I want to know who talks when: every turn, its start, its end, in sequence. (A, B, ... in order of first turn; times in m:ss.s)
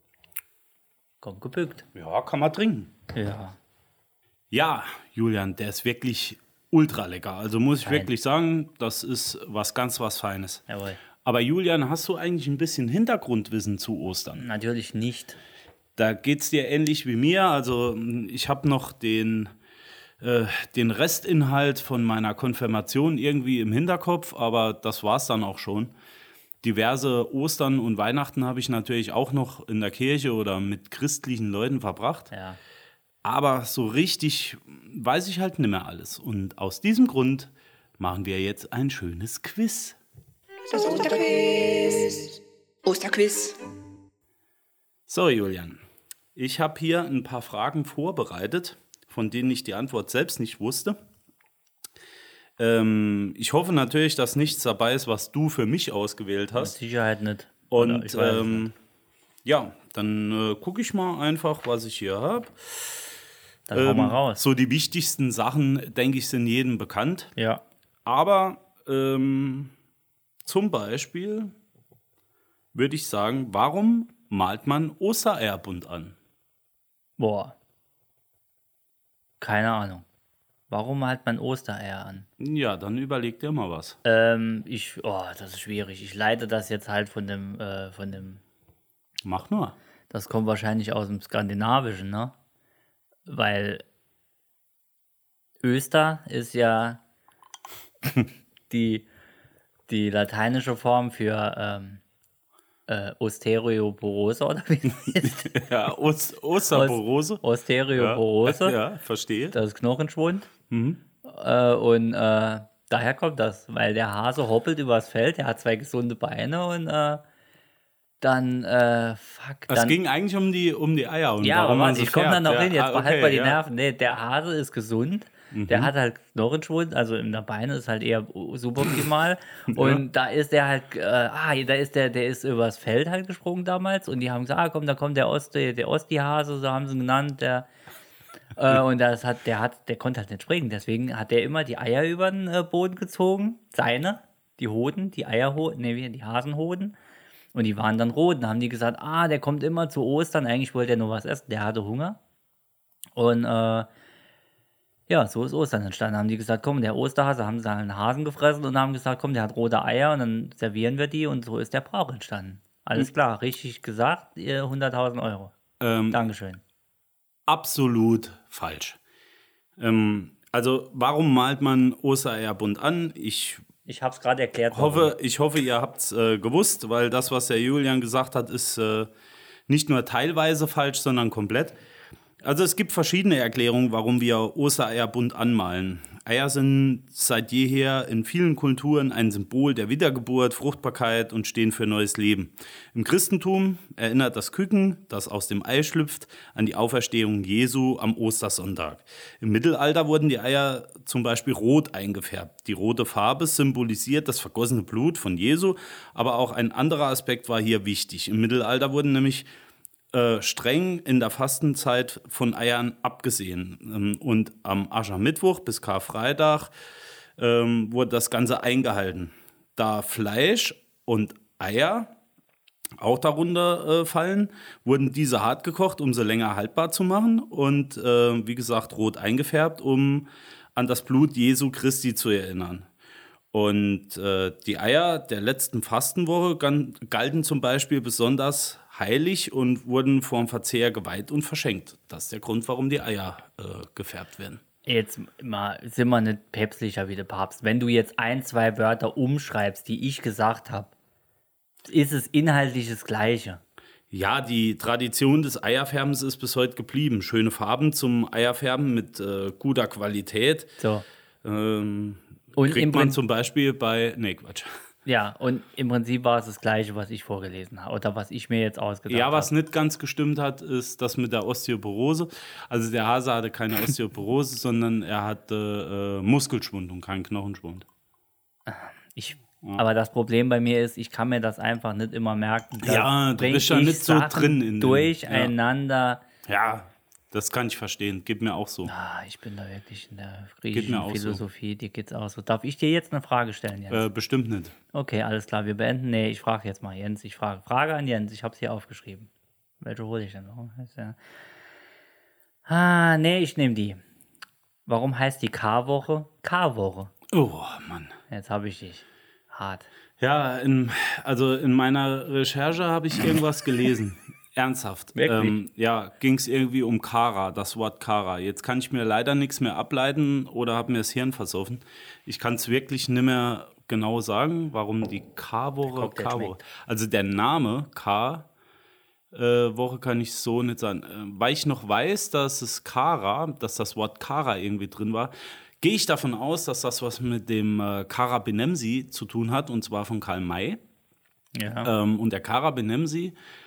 0:01.2-0:01.9 A
0:01.9-0:02.9 B
0:03.1-0:03.6 A
0:04.5-0:10.6 B
0:07.8-0:08.1 A
0:10.7-0:11.0 A
0:11.2-0:14.4 B
0:14.4-0:15.4 A
0:16.0-0:19.5 B
0:20.2-0:25.9 B
0:26.6-0:32.3 B
0:32.3-0:32.6 A
0:33.2-0:40.0 B
0:40.7-0:43.6 C
0:45.1-0:45.8 B
0:46.3-0:51.0 B
0:52.6-0:56.8 B
0:56.6-0:58.7 A
0:57.7-0:58.7 B
0:59.4-1:03.1 B
1:03.7-1:04.4 A
1:03.7-1:07.3 B
1:07.4-1:07.6 A
1:08.0-1:09.7 B
1:10.4-1:11.5 B
1:12.7-1:16.2 B
1:17.2-1:17.6 A
1:19.4-1:20.0 A
1:20.7-1:22.3 A
1:22.4-1:24.0 B
1:24.0-1:28.4 A
1:29.2-1:29.8 B
1:30.1-1:32.3 A
1:33.3-1:33.8 A
1:35.6-1:37.0 A
1:38.7-1:39.1 A
1:39.9-1:42.0 A
1:42.9-1:45.6 A
1:45.1-1:47.4 B
1:46.7-1:48.8 A
1:47.9-1:49.6 B
1:49.5-1:50.5 A
1:50.7-1:51.0 B
1:51.2-1:57.2 A
1:58.2-2:00.0 A
1:59.7-2:03.6 B
2:01.4-2:17.7 A
2:05.5-2:05.9 B
2:09.7-2:10.0 B
2:18.6-2:26.9 A
2:27.5-2:32.2 A
2:33.1-2:33.9 A
2:35.1-2:45.5 A
2:45.8-2:46.2 B
2:46.1-2:46.6 A
2:47.5-2:49.0 B
2:49.8-2:53.6 B
2:53.9-2:55.1 A
2:54.7-2:59.1 B
2:59.7-3:01.8 B
3:02.4-3:29.5 B
3:30.1-3:36.7 B
3:37.4-3:42.1 B
3:43.0-3:52.9 B
3:53.5-4:04.6 B
4:04.8-4:10.9 A
4:11.8-4:13.6 A
4:14.1-4:20.8 B
4:20.8-4:21.0 A
4:21.4-4:24.7 B
4:22.6-4:23.2 A
4:25.0-4:29.5 A
4:29.1-4:37.9 B
4:38.7-4:46.2 A
4:42.8-4:45.5 B
4:46.4-4:48.9 B
4:48.8-4:54.1 A
4:50.7-4:51.4 B
4:53.9-4:54.7 B
4:54.9-4:59.3 A
4:59.8-5:01.2 A
5:02.7-5:04.0 A
5:04.8-5:07.1 A
5:07.3-5:08.2 B
5:08.3-5:09.9 A
5:10.2-5:28.5 B
5:15.1-5:15.6 A
5:25.9-5:26.6 A
5:29.3-5:40.8 B
5:41.5-5:41.9 A
5:41.8-5:43.4 B